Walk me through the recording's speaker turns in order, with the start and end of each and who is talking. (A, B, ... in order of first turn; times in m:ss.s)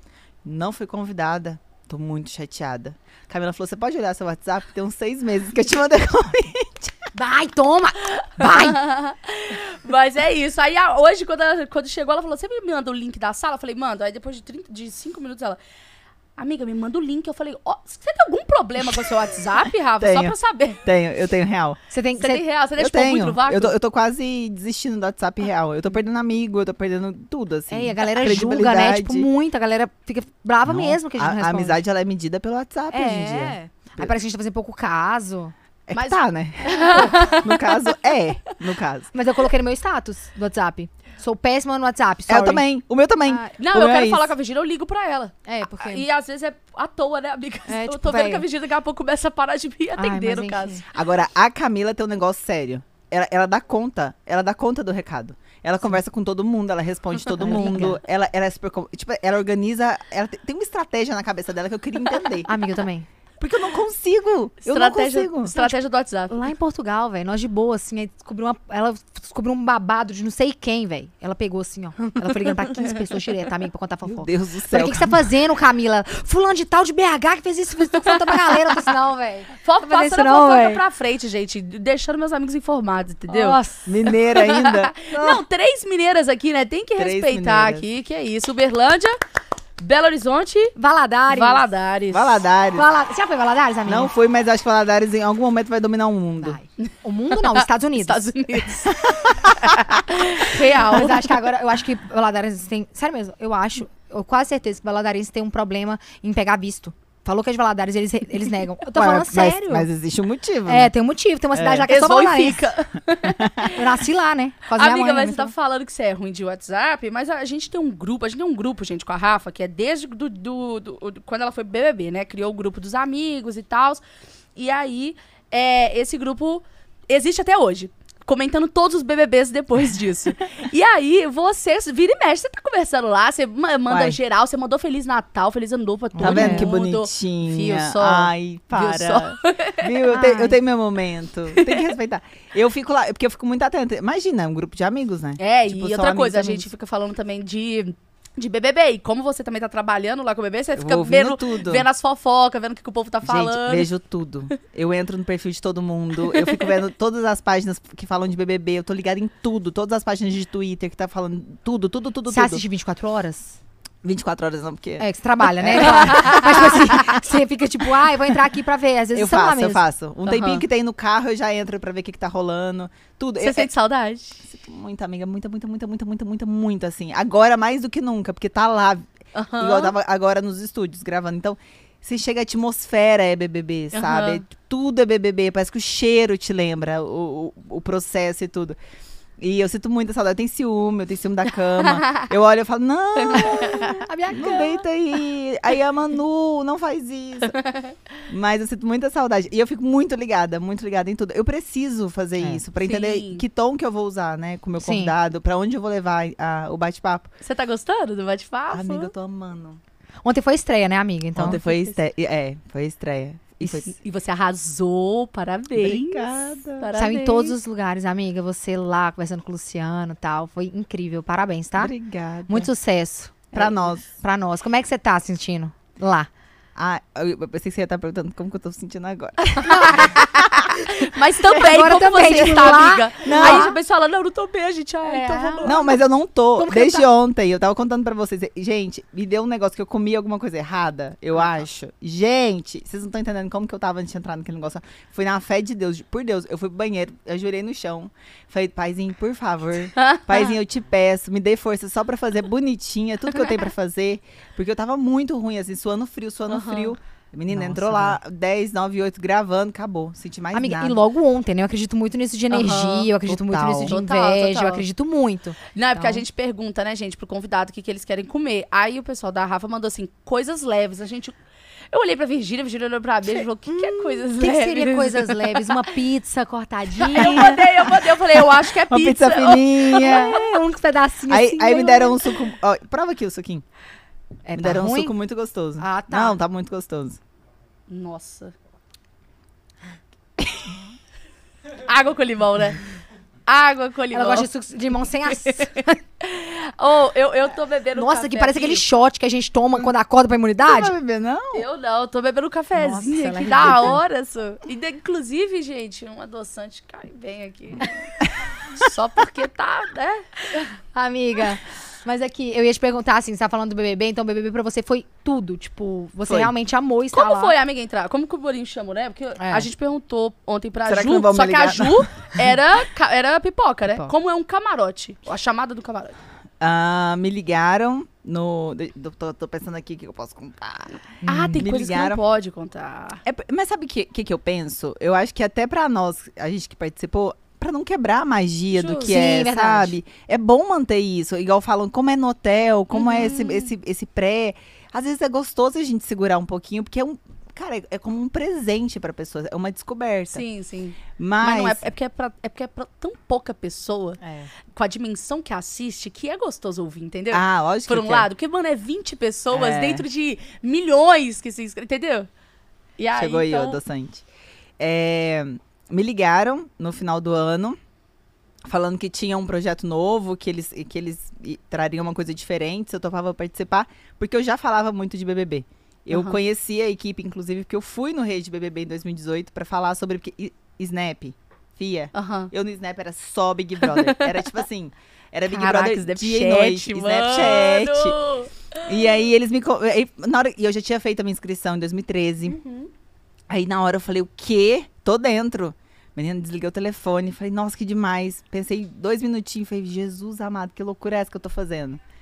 0:00.4-0:07.1 A
0:07.1-0:08.8 B
0:08.4-0:15.6 C
0:16.4-0:20.8 C
0:20.0-0:21.8 A
0:21.9-0:22.4 B
0:22.2-0:23.8 C
0:22.8-0:29.3 A
0:27.7-0:31.8 B
0:30.6-0:34.1 A
0:32.9-0:35.5 B
0:35.9-0:39.1 A
0:35.9-0:38.0 C
0:37.0-0:37.3 B
0:39.1-0:42.6 B
0:42.3-0:44.3 A
0:43.3-0:43.6 B
0:43.6-0:50.9 C
0:45.5-0:46.1 B
0:47.7-0:48.5 B
0:50.0-0:50.8 B
0:50.9-1:02.5 A
0:57.4-0:58.0 B
1:02.5-1:03.1 B
1:03.4-1:05.7 A
1:04.6-1:06.4 C
1:06.3-1:20.8 B
1:12.2-1:13.0 C
1:14.1-1:15.2 A
1:18.1-1:18.7 C
1:19.6-1:23.6 C
1:23.3-1:23.9 B
1:23.9-1:25.4 A
1:24.1-1:29.2 C
1:27.0-1:27.9 A
1:29.8-1:30.8 C
1:30.8-1:31.6 B
1:31.3-1:32.4 C
1:32.1-1:32.9 A
1:32.8-1:34.1 B
1:33.9-1:36.6 A
1:36.4-1:38.7 B
1:37.3-1:41.3 C
1:40.9-1:49.9 B
1:49.0-1:50.9 A
1:50.7-1:52.7 B
1:51.5-1:51.9 A
1:51.9-1:54.0 C
1:53.6-1:55.5 B
1:54.8-2:04.0 C
2:04.6-2:20.1 C
2:13.9-2:14.2 A
2:16.2-2:16.7 B
2:16.2-2:26.7 A
2:20.1-2:20.6 B
2:21.6-2:21.8 C
2:25.4-2:33.9 C
2:30.8-2:31.9 A
2:33.2-2:42.6 A
2:36.2-2:36.7 C
2:42.3-2:43.6 B
2:44.0-2:46.8 A
2:45.0-2:49.8 B
2:45.9-2:46.5 C
2:49.2-2:53.7 A
2:50.3-2:50.6 C
2:53.4-2:54.4 C
2:54.4-3:08.8 A
2:59.4-3:00.0 C
3:03.9-3:04.4 C
3:09.4-3:17.6 A
3:11.8-3:12.3 C
3:13.2-3:14.0 C
3:14.0-3:14.8 B
3:17.5-3:18.0 C
3:18.3-3:27.3 A
3:22.8-3:23.4 C
3:24.8-3:25.1 B
3:27.4-3:29.1 C
3:28.7-3:29.8 A
3:30.2-3:31.6 B
3:31.4-3:33.9 A
3:33.7-3:37.6 C
3:35.8-3:36.9 A
3:36.9-3:41.9 B
3:41.8-3:42.7 A
3:42.5-3:46.3 B
3:43.5-3:44.1 A
3:46.8-3:50.9 A
3:49.6-3:56.0 C
3:51.4-3:52.6 A
3:51.5-3:53.8 B
3:53.2-3:53.7 A
3:55.0-3:55.8 B
3:55.6-4:21.0 A
3:56.6-3:57.1 B
4:10.0-4:10.5 C
4:16.5-4:16.9 C
4:17.5-4:18.2 B
4:20.5-4:26.2 B
4:22.5-4:23.1 C
4:23.3-4:24.0 A
4:23.8-4:24.8 C
4:25.8-4:31.4 C
4:31.9-4:35.9 C
4:33.7-4:37.7 B
4:37.0-4:40.4 C
4:37.2-4:40.7 A
4:40.0-4:42.3 B
4:41.3-4:43.6 A
4:44.5-4:45.1 B
4:44.6-4:47.2 A
4:45.8-4:46.4 B
4:47.9-4:48.5 C
4:50.4-4:50.7 A
4:51.8-4:52.8 C
4:53.5-4:54.5 C
4:54.1-4:56.0 B
4:55.3-4:55.7 C
4:56.2-4:58.8 C
4:58.0-5:00.9 B
5:00.6-5:01.7 A
5:01.5-5:08.1 C
5:02.8-5:04.0 B
5:08.7-5:10.7 C
5:10.9-5:17.5 B
5:16.3-5:16.5 A
5:17.1-5:26.2 C
5:19.4-5:19.7 B
5:20.8-5:22.1 A
5:26.6-5:31.0 A
5:31.2-5:31.7 B
5:31.3-5:33.2 C
5:31.6-5:32.2 A
5:33.2-5:50.4 A
5:38.8-5:39.0 C
5:38.8-5:40.0 B
5:42.9-5:43.7 C
5:50.3-5:54.2 C
5:51.2-5:51.8 A
5:54.7-6:02.3 C
5:57.3-5:58.3 A
5:59.5-6:00.1 A
6:03.0-6:03.8 C
6:03.2-6:04.2 A
6:04.8-6:07.8 A
6:08.6-6:28.2 A
6:16.1-6:16.4 B
6:22.1-6:22.5 C
6:23.8-6:24.5 C
6:25.5-6:29.1 C
6:28.9-6:32.6 A
6:32.5-6:32.9 C
6:33.5-6:42.0 A